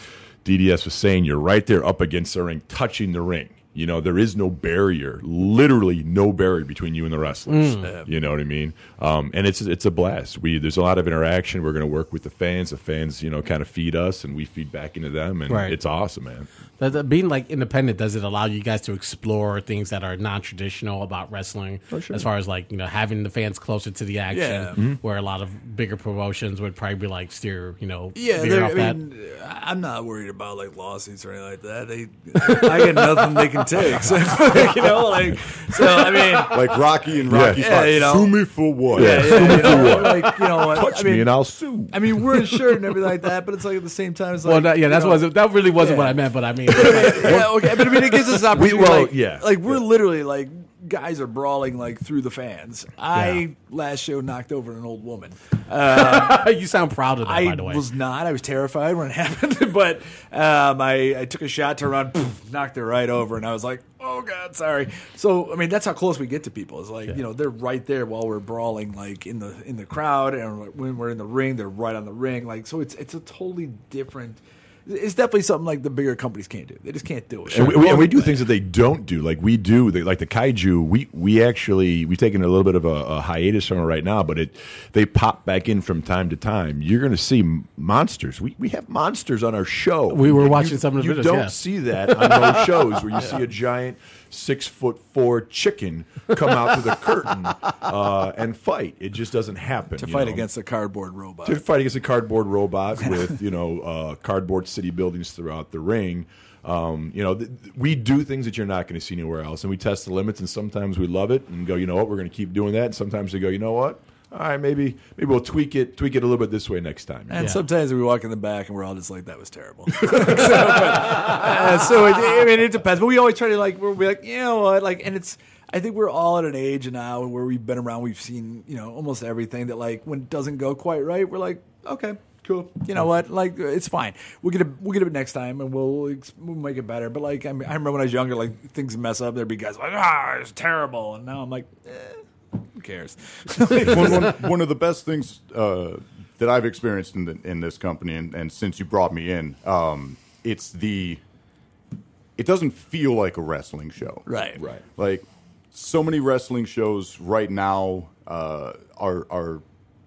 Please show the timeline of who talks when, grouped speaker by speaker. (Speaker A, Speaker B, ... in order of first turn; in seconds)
Speaker A: 0.4-16.5, 21.9-22.3, 37.3-37.8, 38.9-42.2, 46.8-49.8, 77.5-100.5, 101.4-117.5, 154.6-154.8
Speaker B: 7.5-7.9, 15.5-15.8, 16.8-29.0, 32.4-33.2, 39.7-40.3, 44.4-47.5, 53.1-53.4, 55.8-57.8, 90.1-92.8
Speaker C: 7.8-8.1, 24.3-24.8, 28.1-36.7, 37.4-38.4, 38.9-41.4, 41.9-56.5, 57.2-78.5, 100.0-101.6, 117.3-142.2, 142.7-144.4, 154.2-154.6
Speaker D: 36.5-39.6, 143.7-151.2, 152.4-154.3, 154.9-159.6